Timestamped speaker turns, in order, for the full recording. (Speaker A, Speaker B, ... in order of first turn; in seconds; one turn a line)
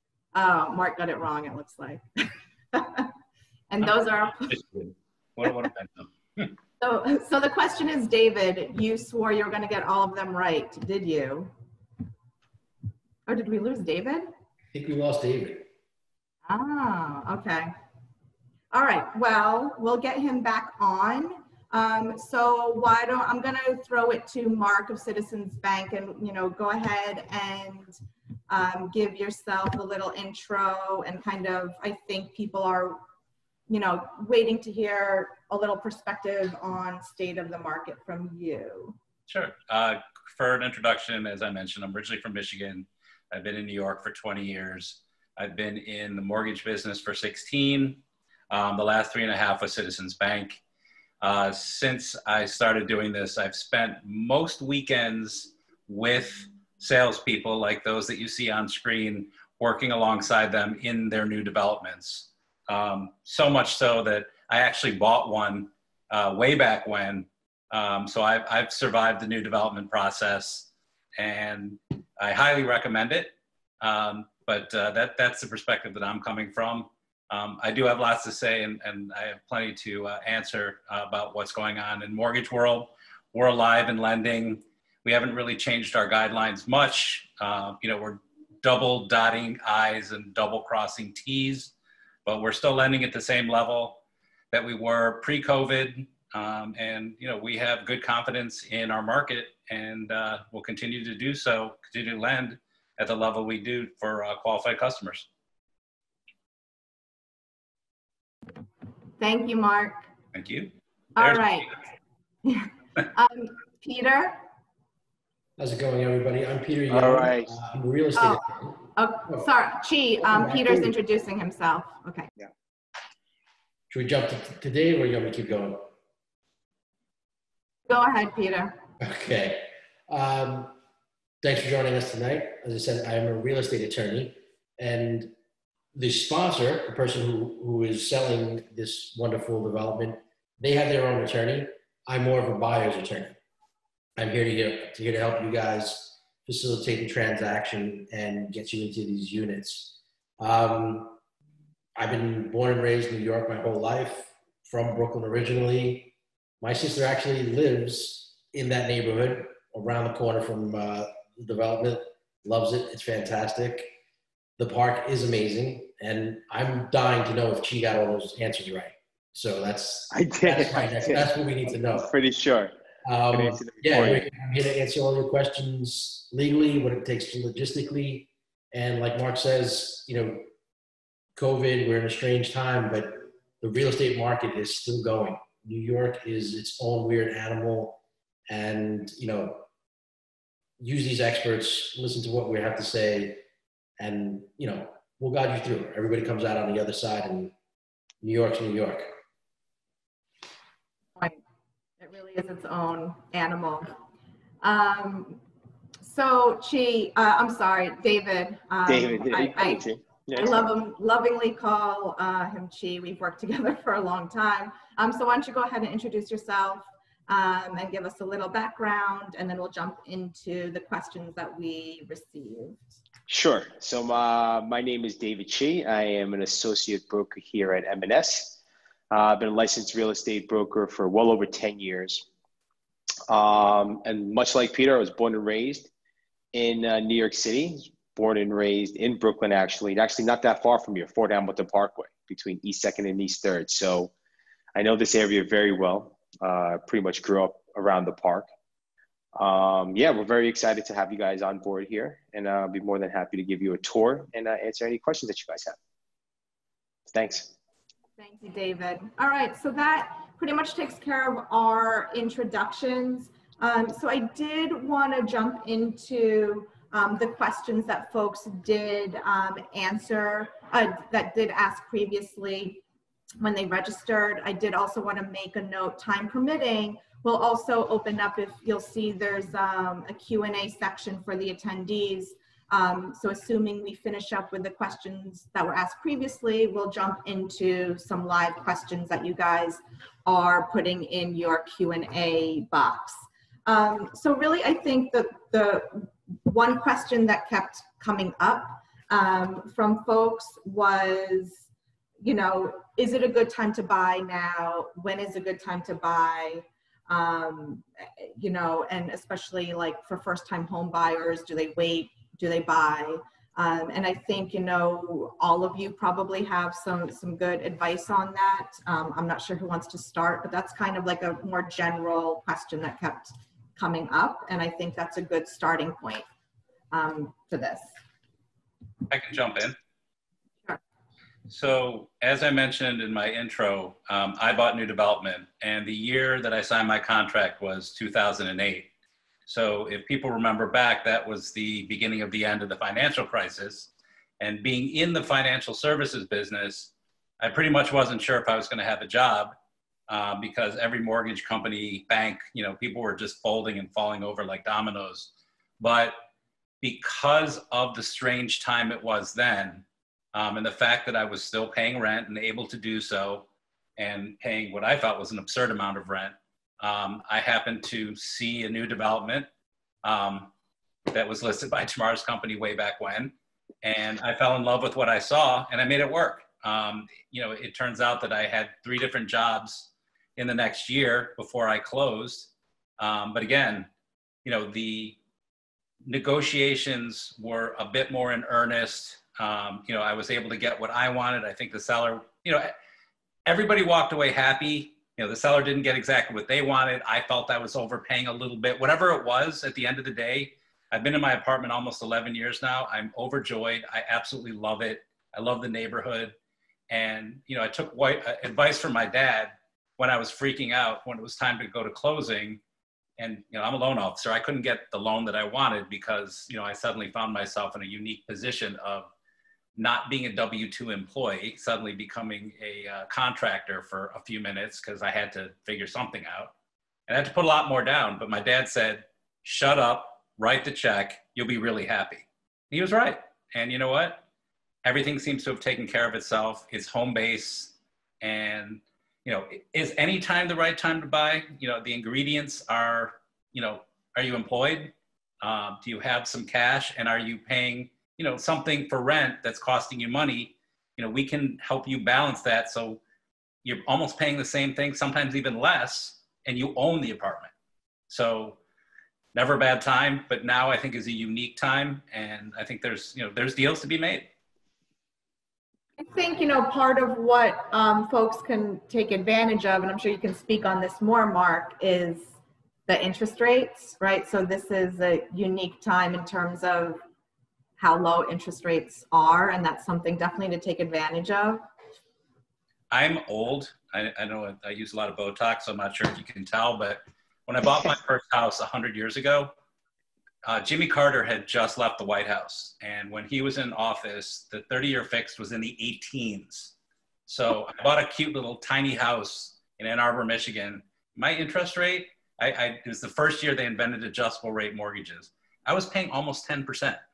Speaker A: 0.3-3.1
Speaker A: 3.7-4.6
Speaker B: 4.5-6.5
Speaker A: 6.8-11.5
Speaker A: 13.3-14.3
Speaker C: 14.7-15.7
Speaker A: 16.5-17.7
Speaker A: 18.7-28.0
Speaker A: 28.5-33.0
Speaker A: 33.7-39.0
Speaker B: 39.3-50.6
Speaker B: 51.2-91.7
Speaker B: 92.3-94.0
Speaker B: 94.5-105.3
Speaker A: 109.2-110.1
Speaker B: 110.3-111.8
Speaker A: 111.2-111.8
Speaker A: 112.5-114.4
Speaker C: 115.6-119.5
Speaker D: 116.9-117.5
Speaker A: 118.2-118.4
Speaker A: 118.9-122.3
Speaker C: 120.2-120.9
Speaker C: 123.9-125.9
Speaker A: 127.9-128.8
Speaker C: 129.0-130.7
Speaker C: 131.4-135.3
Speaker C: 135.9-143.4
Speaker C: 144.2-151.2
Speaker C: 152.0-163.9
Speaker C: 164.6-172.1
Speaker D: 170.1-171.3
Speaker D: 171.8-172.8
Speaker C: 173.0-180.5
Speaker D: 173.3-174.3
Speaker C: 181.4-189.7
Speaker C: 190.8-193.4
Speaker C: 194.0-197.5
Speaker C: 198.2-199.2
Speaker A: 202.0-203.9
Speaker A: 204.6-205.4
Speaker A: 206.0-209.8
Speaker D: 208.9-210.7
Speaker A: 210.4-222.8
Speaker D: 223.3-228.6
Speaker D: 229.1-232.3
Speaker D: 233.3-235.9
Speaker D: 236.5-244.1
Speaker D: 244.8-248.5
Speaker D: 249.4-255.8
Speaker D: 257.1-257.5
Speaker A: 258.2-272.8
Speaker A: 273.4-301.6
Speaker A: 302.2-326.3
Speaker A: 326.9-327.9
Speaker B: 329.1-329.8
Speaker B: 331.5-338.9
Speaker B: 339.5-349.6
Speaker B: 350.1-356.1
Speaker B: 356.8-363.5
Speaker B: 364.0-369.5
Speaker B: 370.0-370.5
Speaker B: 371.1-383.9
Speaker B: 384.4-385.2
Speaker B: 386.1-392.7
Speaker B: 393.5-406.4
Speaker B: 406.9-412.6
Speaker B: 413.2-419.1
Speaker B: 419.8-426.5
Speaker B: 427.1-434.2
Speaker B: 434.8-453.0
Speaker B: 453.6-457.5
Speaker B: 458.1-458.6
Speaker B: 459.3-464.3
Speaker A: 466.0-472.4
Speaker A: 472.9-477.0
Speaker A: 477.8-481.6
Speaker B: 482.9-489.5
Speaker B: 490.4-496.7
Speaker B: 497.3-507.0